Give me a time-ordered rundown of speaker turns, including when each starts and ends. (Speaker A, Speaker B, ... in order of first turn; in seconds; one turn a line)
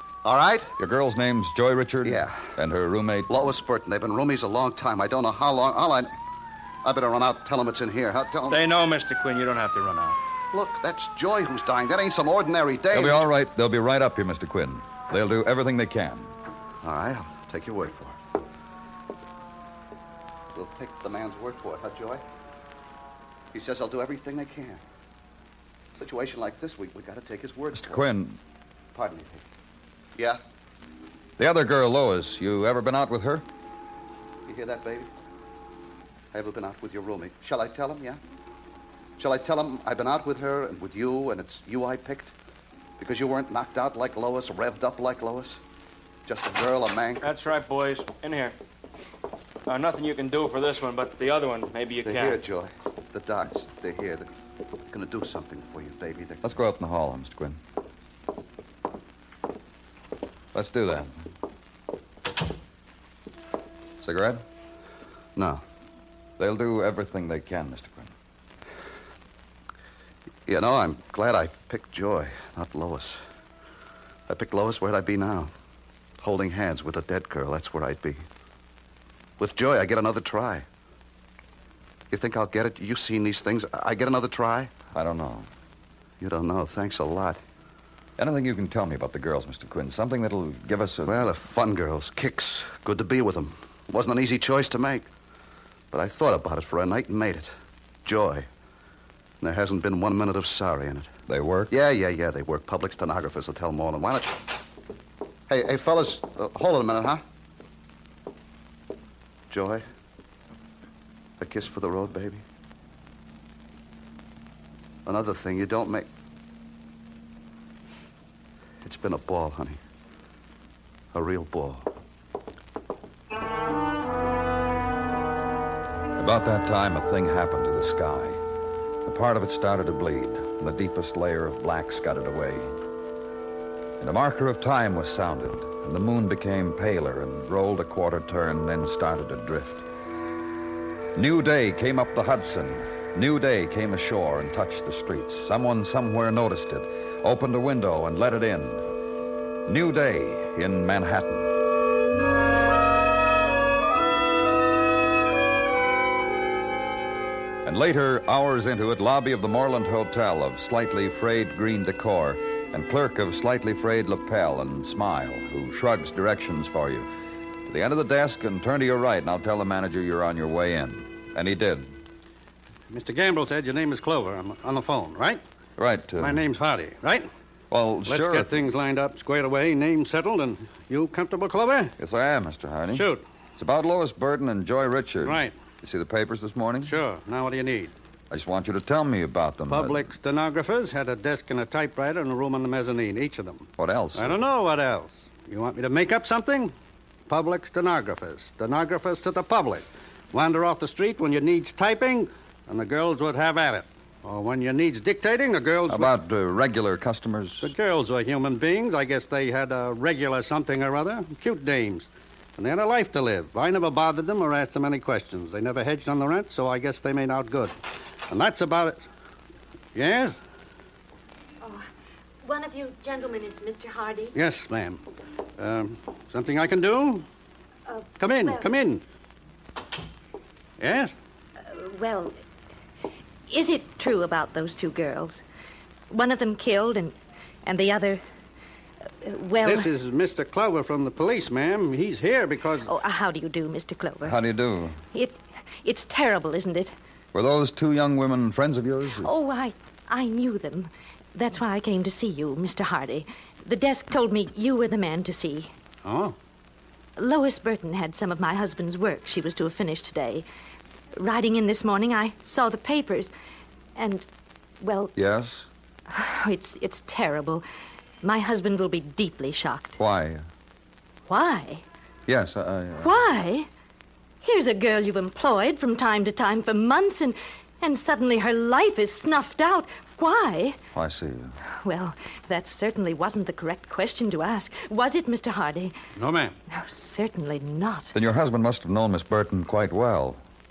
Speaker A: 0.2-0.8
Speaker B: 0.8-3.4
Speaker A: 2.0-2.4
Speaker A: 3.3-6.1
Speaker A: 6.8-8.6
Speaker C: 8.5-10.2
Speaker A: 10.5-13.3
Speaker B: 12.9-16.3
Speaker A: 16.8-18.2
Speaker A: 20.6-22.2
Speaker A: 23.5-24.8
Speaker A: 25.9-28.0
Speaker B: 27.7-28.4
Speaker A: 28.9-29.4
Speaker B: 31.4-33.5
Speaker A: 34.5-35.1
Speaker A: 36.3-38.2
Speaker A: 39.2-42.3
Speaker A: 43.0-45.6
Speaker A: 46.3-47.3
Speaker C: 47.2-48.5
Speaker C: 49.7-52.4
Speaker A: 52.0-54.3
Speaker A: 54.9-56.4
Speaker B: 56.4-57.6
Speaker B: 60.5-61.2
Speaker B: 64.0-64.4
Speaker A: 65.4-65.6
Speaker B: 66.4-68.1
Speaker A: 70.5-73.2
Speaker A: 74.3-75.5
Speaker A: 76.2-78.2
Speaker A: 79.4-80.7
Speaker A: 82.1-84.7
Speaker B: 84.9-85.5
Speaker A: 86.2-87.4
Speaker B: 88.2-91.2
Speaker A: 91.0-95.1
Speaker A: 95.9-97.5
Speaker A: 98.0-98.5
Speaker A: 99.4-101.1
Speaker B: 101.3-101.7
Speaker A: 101.7-104.5
Speaker A: 105.5-107.2
Speaker A: 109.5-109.8
Speaker A: 111.4-112.4
Speaker A: 115.1-116.1
Speaker A: 118.8-119.8
Speaker A: 121.1-121.9
Speaker B: 126.2-128.4
Speaker B: 129.1-132.7
Speaker B: 134.0-139.8
Speaker B: 141.2-148.8
Speaker B: 149.7-151.5
Speaker B: 157.7-167.1
Speaker B: 167.7-171.9
Speaker D: 172.9-175.4
Speaker B: 175.8-176.4
Speaker D: 176.2-177.3
Speaker B: 177.7-178.6
Speaker D: 178.1-181.9
Speaker B: 182.0-187.0
Speaker D: 182.9-183.2
Speaker D: 185.2-185.5
Speaker D: 186.8-187.9
Speaker B: 188.3-190.1
Speaker D: 189.7-196.7
Speaker B: 193.8-194.4
Speaker D: 197.3-206.1
Speaker B: 205.9-207.7
Speaker D: 207.6-217.8
Speaker D: 218.3-219.1
Speaker D: 219.9-220.3
Speaker E: 222.4-224.3
Speaker D: 224.3-225.0
Speaker D: 225.6-227.3
Speaker E: 227.9-228.7
Speaker D: 228.2-229.0
Speaker D: 230.8-231.1
Speaker E: 231.6-232.4
Speaker E: 233.5-235.4
Speaker E: 236.1-238.2
Speaker E: 239.2-239.9
Speaker D: 239.6-242.9
Speaker E: 242.8-244.4
Speaker B: 244.2-245.0
Speaker E: 245.1-246.9
Speaker B: 247.3-249.3
Speaker E: 249.2-255.7
Speaker D: 256.1-256.4
Speaker E: 257.2-260.4
Speaker E: 261.1-263.3
Speaker E: 264.0-264.3
Speaker E: 264.8-265.1
Speaker B: 265.1-265.7
Speaker E: 266.1-267.6
Speaker E: 268.2-270.0
Speaker B: 270.0-270.5
Speaker E: 271.3-271.8
Speaker B: 272.3-273.2
Speaker E: 273.0-273.7
Speaker E: 274.4-280.8
Speaker B: 280.9-281.6
Speaker E: 281.7-285.9
Speaker D: 286.1-286.6
Speaker E: 286.7-288.1
Speaker B: 288.1-290.4